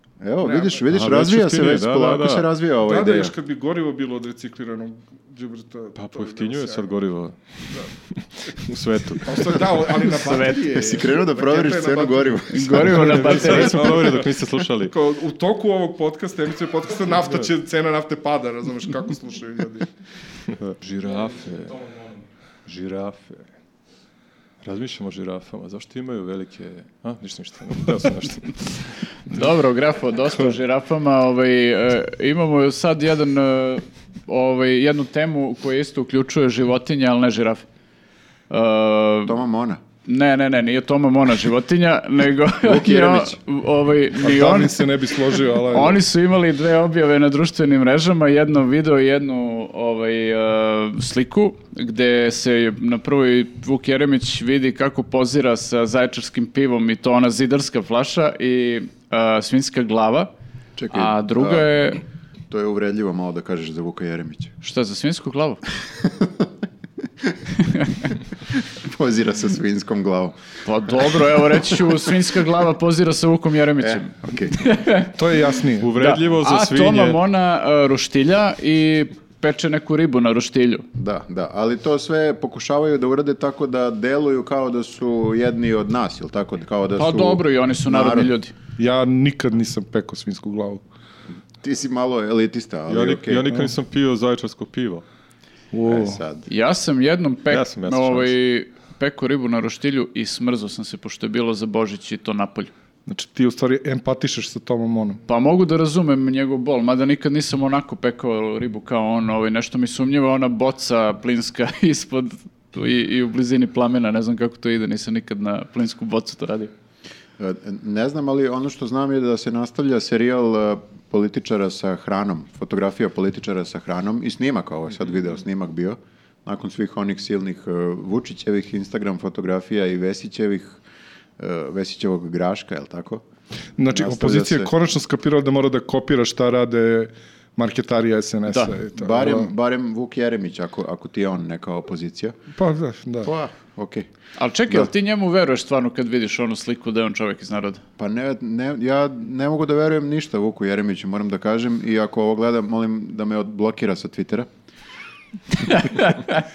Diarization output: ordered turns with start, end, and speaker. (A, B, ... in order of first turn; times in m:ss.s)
0:00.2-0:03.3 A
0:00.4-0:00.9 B
0:00.9-0:02.5 C
0:02.8-0:06.9 B
0:06.0-0:09.8 C
0:09.2-0:19.9 B
0:10.1-0:10.8 D
0:10.7-0:13.4 A
0:12.5-0:14.0 D
0:12.8-0:14.9 C
0:17.2-0:17.5 C
0:20.5-0:22.1 C
0:22.6-0:23.5 C
0:24.6-0:29.4 C
0:29.3-0:37.6 D
0:38.5-0:39.4 D
0:39.2-0:39.8 A
0:40.0-0:44.9 D
0:42.6-0:43.4 A
0:44.2-0:46.0 B
0:45.7-1:00.3 D
1:00.8-1:01.7 A
1:00.9-1:02.0 D
1:02.5-1:04.5 A
1:04.6-1:05.6 D
1:06.0-1:06.4 A
1:08.1-1:10.4 A
1:10.6-1:15.1 D
1:13.8-1:14.9 A
1:15.1-1:15.9 B
1:15.8-1:17.2 C
1:15.9-1:20.8 D
1:20.9-1:28.3 A
1:27.0-1:28.5 D
1:28.8-1:30.8 B
1:31.6-1:33.5 A
1:32.9-1:35.0 C
1:35.7-1:36.2 B
1:35.9-1:36.5 A
1:36.5-1:42.7 D
1:37.5-1:38.3 C
1:43.0-1:45.2 B
1:45.3-1:56.7 D
1:57.4-2:10.8 A
2:11.4-2:13.2 A
2:13.8-2:19.5 B
2:13.9-2:14.7 A
2:18.5-2:18.7 D
2:18.9-2:22.4 A
2:22.5-2:23.3 B
2:23.2-2:24.1 A
2:24.4-2:27.8 D
2:28.0-2:34.5 A
2:35.6-2:36.4 D